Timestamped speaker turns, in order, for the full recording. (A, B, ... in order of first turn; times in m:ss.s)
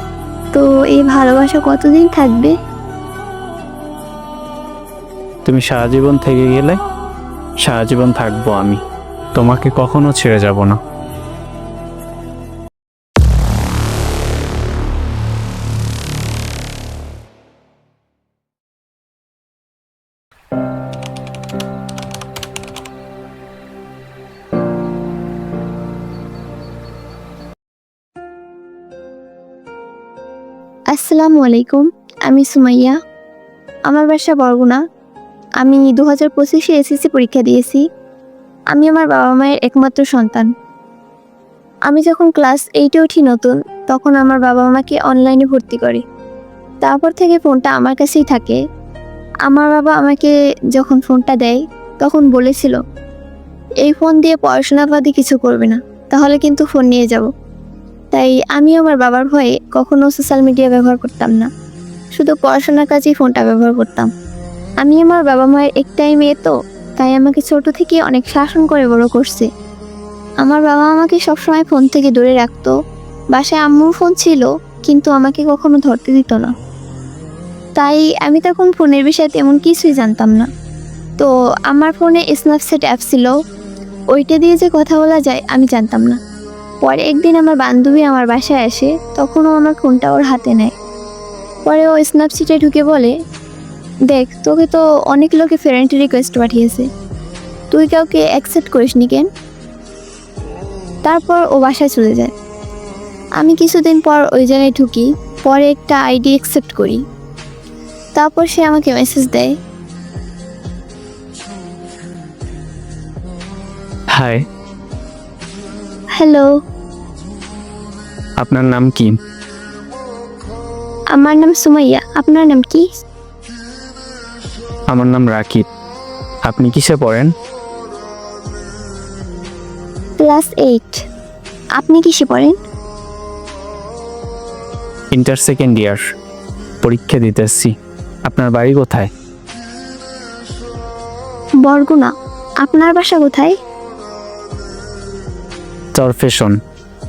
0:00.5-0:02.5 A
0:05.4-0:06.8 B
0:07.6-0:08.8 B
0:09.3-0:10.8 B
0:30.9-0:33.0 A
0:33.9-0:34.8 A
0:35.6-0:37.8 A
0:38.7-0:40.5 A
0:41.9-0:46.0 A
0:46.8-0:48.6 A
0:49.5-0:52.8 A
0:53.8-0:57.3 A
0:58.1-1:01.5 A
1:02.1-1:04.1 A
1:04.8-1:09.5 A
1:10.4-1:12.7 A
1:13.3-1:16.5 A
1:17.8-1:20.5 A
1:21.2-1:23.3 A
1:24.1-1:26.2 A
1:26.8-1:30.7 A
1:31.6-1:33.1 A
1:34.1-1:36.9 A
1:37.7-1:39.3 A
1:41.0-1:42.3 A
1:43.4-1:47.0 A
1:48.2-1:49.5 A
1:54.1-1:54.4 B
1:56.2-1:56.5 A
1:58.4-1:59.1 B
2:01.1-2:02.8 A
2:04.9-2:05.6 B
2:06.4-2:07.3 B
2:10.2-2:11.0 A
2:11.8-2:12.5 A
2:15.1-2:16.0 B
2:16.8-2:17.7 B
2:18.2-2:19.1 B
2:21.6-2:22.1 A
2:22.6-2:23.5 A
2:25.9-2:26.6 B